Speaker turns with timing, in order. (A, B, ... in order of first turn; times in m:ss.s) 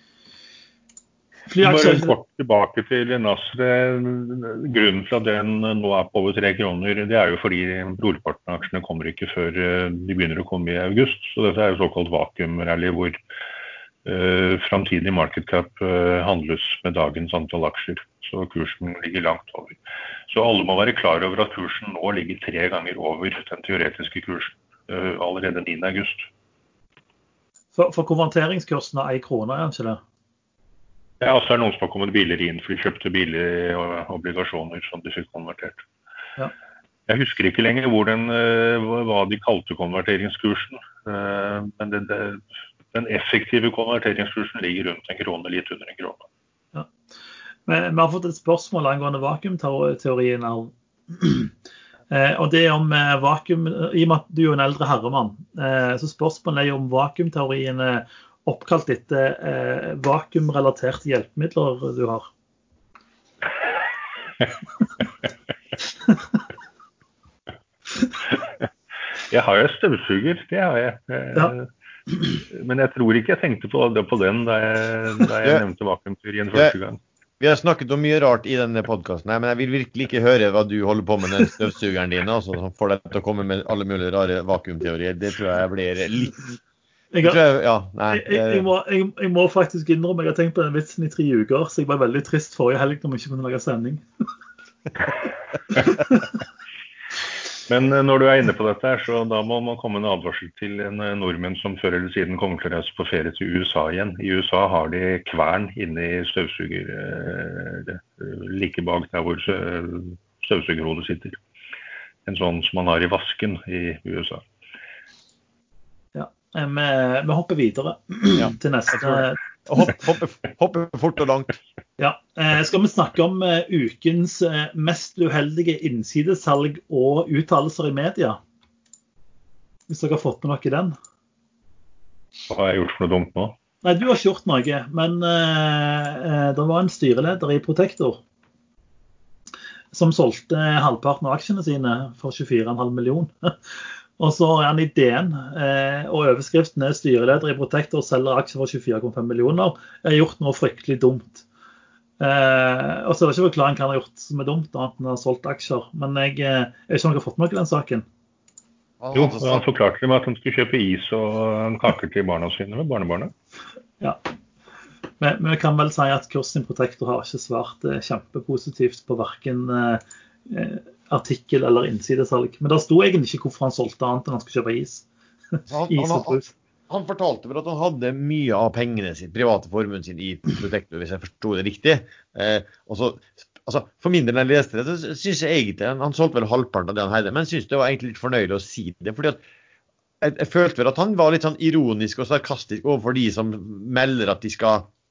0:01.5-0:02.1 A
0:01.6-0:13.2 B
0:14.0-0:19.8 B
0:20.3-0:26.3 B
0:27.8-0:30.0 A
0:31.2-0:35.8 B
0:37.1-0:46.3 B
0:47.7-0:51.5 A
0:52.1-1:02.3 A
1:09.3-1:11.7 B
1:12.4-1:17.0 B
1:17.4-1:26.6 C
1:27.1-1:27.4 A
1:27.2-1:28.7 C
1:28.1-1:34.0 A
1:37.7-1:51.4 B
1:52.3-1:54.4 B
1:56.2-1:59.9 A
1:58.4-2:01.6 C
2:02.0-2:08.4 A
2:09.9-2:11.0 A
2:12.5-2:13.6 B
2:13.8-2:18.2 A
2:19.9-2:23.6 A
2:24.2-2:31.4 A
2:32.2-2:38.1 A
2:39.0-2:39.6 C
2:39.1-2:43.3 B
2:45.2-2:55.1 A
2:55.7-3:09.4 C
2:55.9-2:56.5 A
3:10.2-3:14.9 C